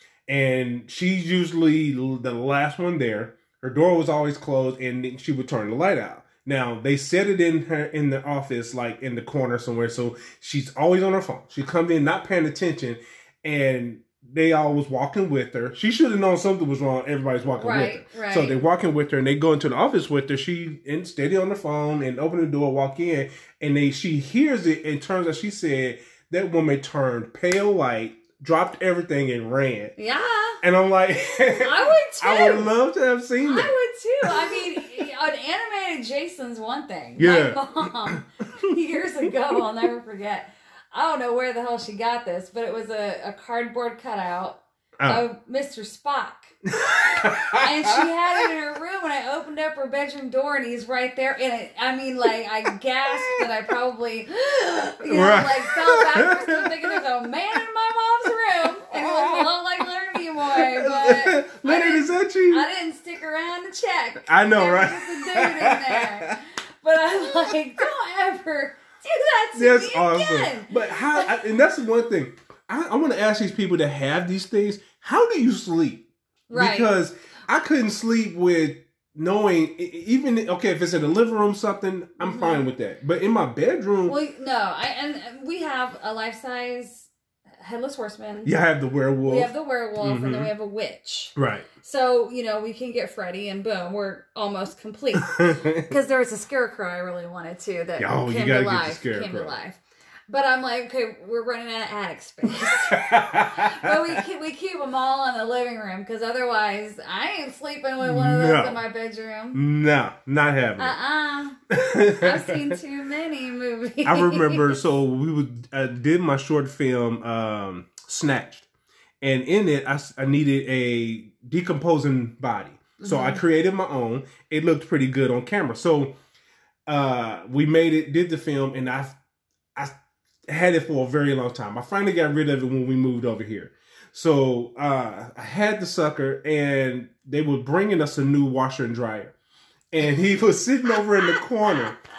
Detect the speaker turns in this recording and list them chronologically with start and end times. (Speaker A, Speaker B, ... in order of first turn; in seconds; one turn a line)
Speaker A: 0.3-29.9
Speaker B: 17.6-18.6
Speaker B: 30.0-30.6
Speaker A: 30.6-33.7
Speaker B: 31.6-32.7
Speaker B: 33.4-46.5
Speaker A: 34.2-34.6
Speaker A: 37.2-38.2
Speaker A: 46.7-48.0
Speaker B: 47.5-71.3
Speaker A: 53.2-53.4
Speaker A: 55.1-56.9
Speaker A: 58.9-59.5
Speaker A: 60.5-62.6
Speaker A: 64.2-66.3
Speaker A: 69.5-84.2
Speaker B: 76.5-76.9
Speaker B: 82.2-82.7
Speaker B: 84.0-88.5
Speaker A: 88.4-90.5
Speaker B: 89.2-109.6
Speaker A: 91.3-91.7
Speaker A: 95.2-95.9
Speaker A: 98.0-99.6
Speaker A: 102.6-104.2
Speaker A: 108.0-108.8
Speaker A: 109.5-111.0
Speaker B: 110.8-114.7
Speaker A: 111.7-112.7
Speaker A: 114.0-118.7
Speaker A: 119.2-126.2
Speaker B: 123.0-123.4
Speaker A: 126.9-129.2
Speaker A: 130.5-139.3
Speaker A: 139.9-142.0